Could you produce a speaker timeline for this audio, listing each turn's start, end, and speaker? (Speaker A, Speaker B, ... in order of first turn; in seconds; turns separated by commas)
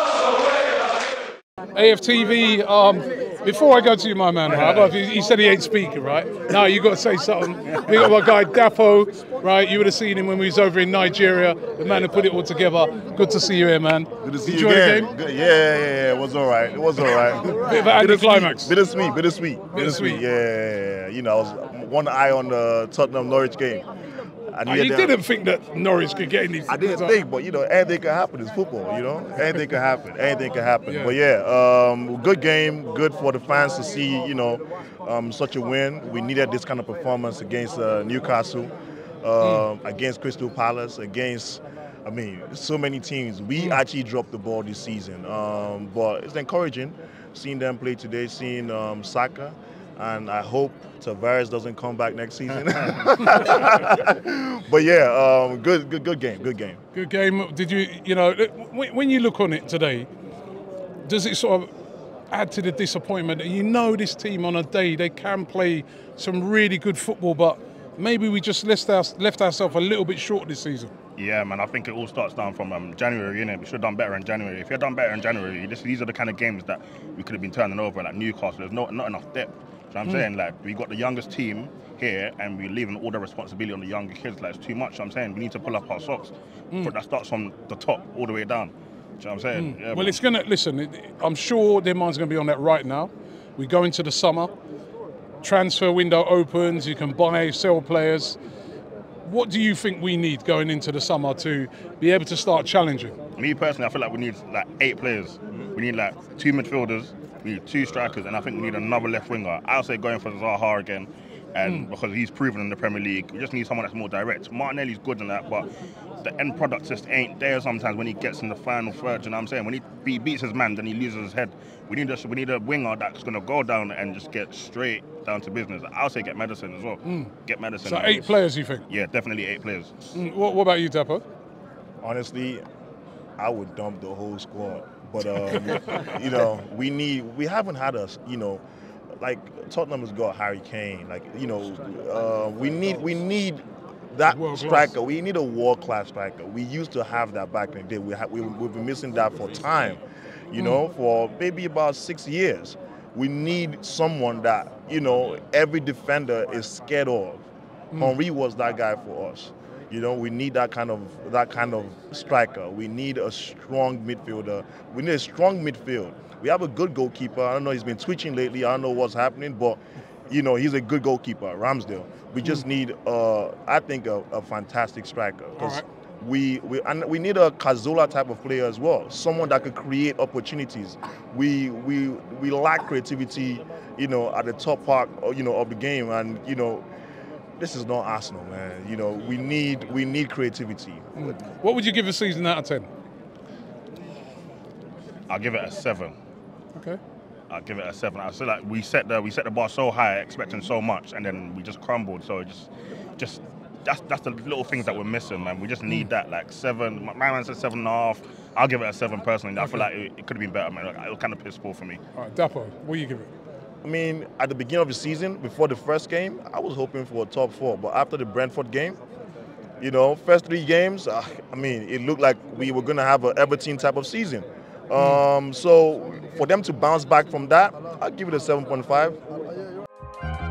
Speaker A: 1.7-15.1, Speaker B: 4.5-4.8, Speaker B: 11.9-12.2, Speaker B: 14.2-23.9, Speaker A: 17.6-18.7, Speaker A: 19.7-20.2, Speaker B: 24.5-25.2, Speaker A: 24.6-27.1, Speaker B: 26.7-38.7, Speaker A: 30.9-31.1, Speaker B: 39.2-56.8, Speaker A: 39.4-39.7, Speaker A: 56.9-60.1, Speaker A: 61.0-61.7, Speaker A: 62.3-70.9, Speaker C: 71.2-90.2, Speaker A: 89.5-94.5, Speaker A: 95.4-98.4, Speaker A: 99.2-103.2, Speaker C: 103.3-115.7, Speaker C: 116.2-128.3, Speaker A: 127.0-127.3, Speaker A: 127.8-128.8, Speaker C: 128.9-129.9, Speaker A: 130.1-131.2, Speaker B: 132.0-132.6, Speaker B: 133.4-138.6, Speaker B: 139.2-150.0, Speaker A: 144.3-144.9, Speaker B: 150.5-186.8, Speaker A: 175.6-175.8, Speaker B: 187.6-191.3, Speaker A: 191.2-192.9, Speaker C: 195.3-196.1, Speaker C: 197.5-212.0, Speaker A: 209.6-209.9, Speaker A: 212.2-213.3, Speaker B: 213.8-219.0, Speaker B: 219.8-229.2